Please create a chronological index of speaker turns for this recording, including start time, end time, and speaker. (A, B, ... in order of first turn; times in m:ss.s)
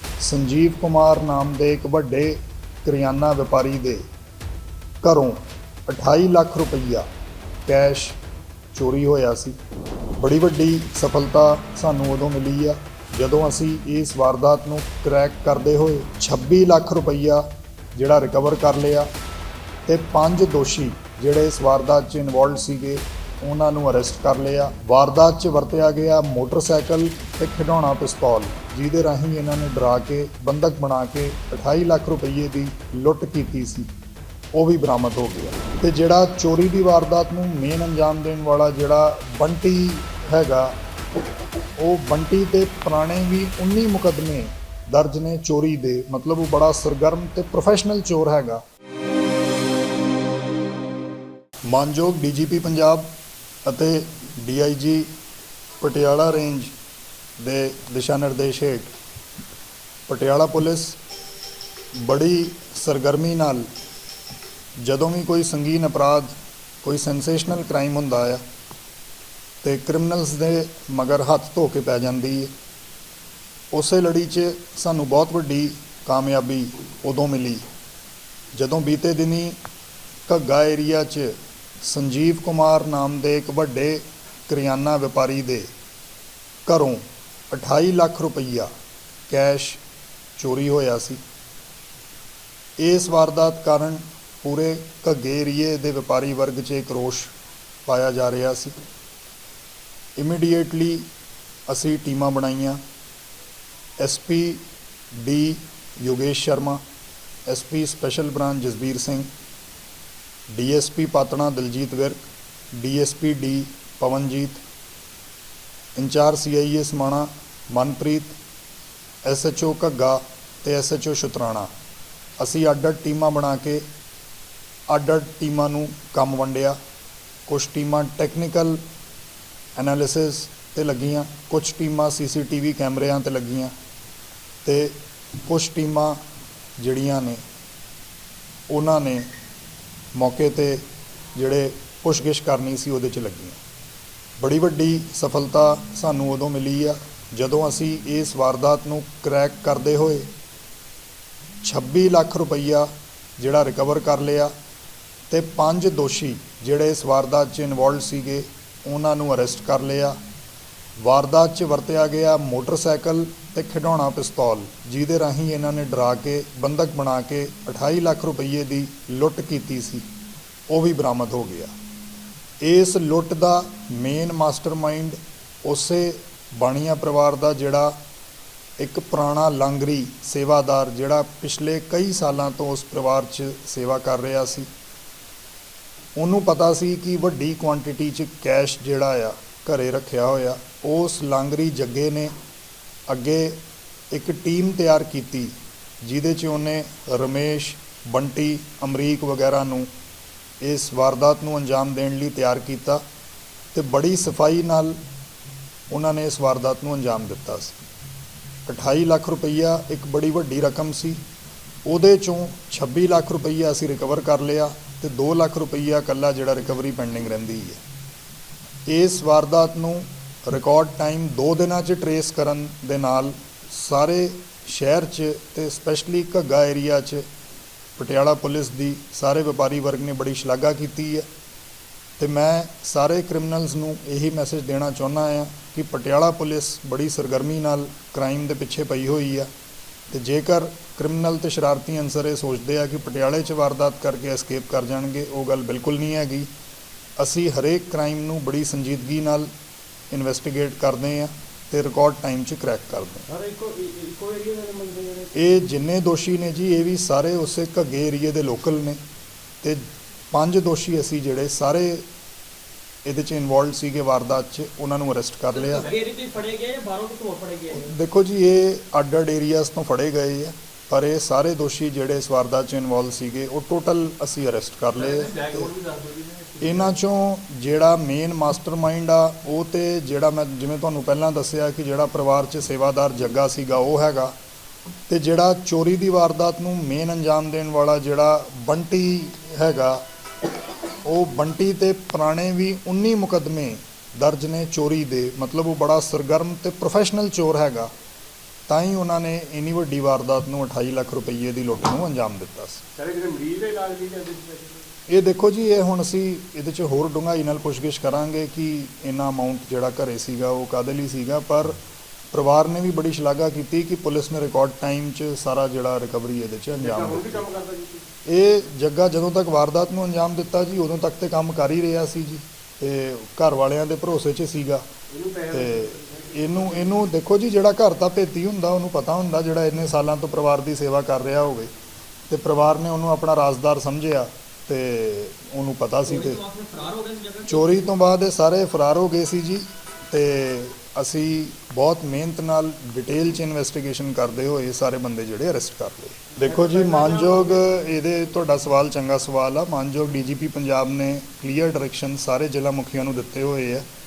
0:00.2-0:04.0 A
0:05.0-0:07.1 A
0:07.7-0:08.2 A
0:08.7-0:09.6 A
0:10.2-0:19.1 A
0:19.9-0:33.9 A
0:34.5-0:40.7 A
0:41.8-0:48.6 A
0:51.7-0:53.1 A
0:53.6-0:55.1 A
0:55.8-0:56.7 A
0:57.4-0:58.9 A
1:00.1-1:01.0 A
1:02.0-1:03.7 A
1:04.8-1:08.4 A
1:09.6-1:12.5 A
1:13.7-1:17.6 A
1:18.6-1:19.6 A
1:20.3-1:25.7 A
1:26.7-1:28.7 A
1:29.3-1:29.8 A
1:30.4-1:31.2 A
1:32.8-1:37.3 A
1:37.8-1:38.8 A
1:40.2-1:41.1 A
1:41.7-1:42.8 A
1:44.0-1:46.8 A
1:47.5-1:49.3 A
1:50.5-1:54.6 A
1:56.0-1:58.4 A
1:59.2-2:01.7 A
2:02.4-2:03.8 A
2:04.9-2:06.8 A
2:07.5-2:08.8 A
2:09.8-2:13.7 A
2:14.6-2:16.2 A
2:16.8-2:17.4 A
2:18.7-2:19.3 A
2:20.2-2:23.6 A
2:24.4-2:30.3 A
2:31.6-2:34.5 A
2:35.3-2:40.2 A
2:41.0-2:50.0 A
2:50.7-2:51.7 A
2:52.6-2:58.0 A
2:58.8-3:04.7 A
3:06.2-3:12.3 A
3:13.1-3:19.9 A
3:20.6-3:23.0 A
3:23.7-3:25.0 A
3:25.9-3:27.8 A
3:28.7-3:31.2 A
3:31.8-3:37.8 A
3:38.9-3:47.2 A
3:48.0-3:51.3 A
3:52.2-3:59.5 A
4:00.1-4:06.5 A
4:07.2-4:09.5 A
4:10.1-4:13.3 A
4:13.3-4:15.4 B
4:15.3-4:19.0 A
4:19.6-4:22.0 A
4:23.0-4:25.9 A
4:25.7-4:27.7 C
4:27.7-4:35.7 A
4:35.0-4:37.0 B
4:36.6-4:44.4 A
4:45.1-4:50.0 A
4:51.0-4:57.9 A
4:58.7-5:02.8 A
5:03.0-5:04.9 B
5:05.1-5:11.8 A
5:12.3-5:17.5 A
5:16.8-5:18.1 B
5:18.2-5:24.8 A
5:25.1-5:27.0 B
5:25.5-5:31.7 A
5:32.3-5:36.4 A
5:36.1-5:37.7 C
5:37.4-5:53.8 A
5:46.6-5:47.6 C